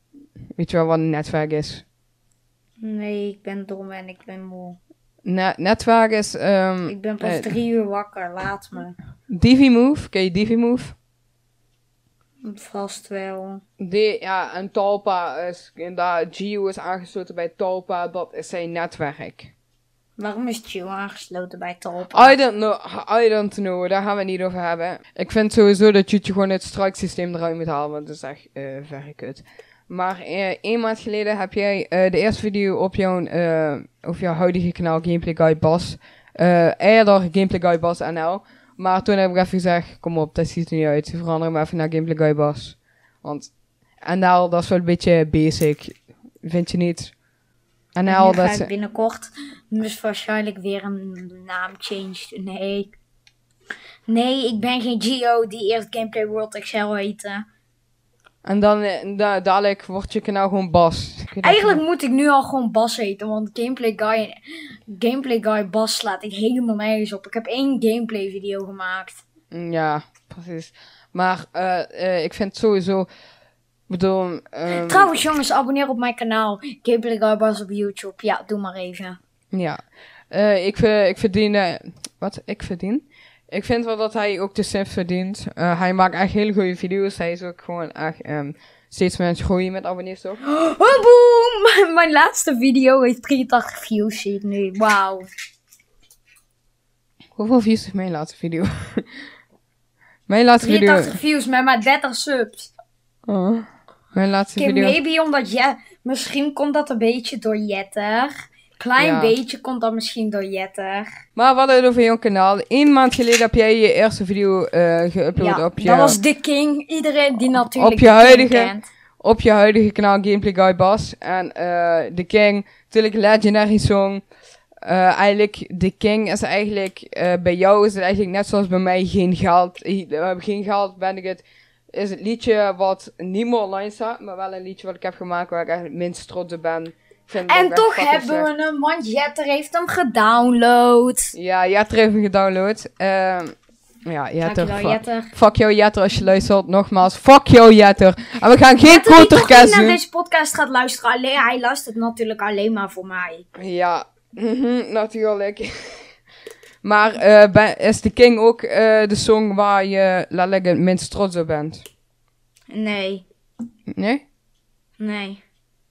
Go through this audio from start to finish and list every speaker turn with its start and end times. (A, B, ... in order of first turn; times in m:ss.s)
0:00.6-0:01.8 A
0:02.8-0:04.8 B
0:05.3-0:07.5 A
0:06.9-0:09.0 B
0:09.3-0:11.0 A
0:12.4-0:13.6 B
0:13.8-0:19.5 A
0:20.2-0:22.4 B
0:22.1-0:43.5 A
0:44.0-0:47.1 A
0:48.0-0:48.7 A
0:48.1-0:52.9 B
0:54.1-0:57.4 B
0:58.4-1:01.8 A
1:01.4-1:04.4 B
1:04.9-1:09.2 B
1:09.5-1:13.1 A
1:13.9-1:15.2 A
1:14.7-1:19.2 B
1:19.5-1:30.4 A
1:30.4-1:35.3 B
1:37.4-1:39.1 A
1:40.3-1:41.2 A
1:40.6-1:42.7 B
1:43.3-1:45.0 A
1:44.6-1:51.1 B
1:49.0-1:49.4 A
1:51.4-1:56.2 A
1:55.4-1:58.9 B
1:57.6-2:04.2 A
2:04.8-2:18.5 A
2:17.5-2:21.3 B
2:21.3-2:23.6 A
2:24.1-2:30.0 A
2:24.4-2:25.3 B
2:28.8-2:33.5 B
2:33.6-2:36.0 A
2:36.8-2:41.8 A
2:42.7-2:43.3 B
2:43.9-2:44.2 A
2:45.0-2:45.4 B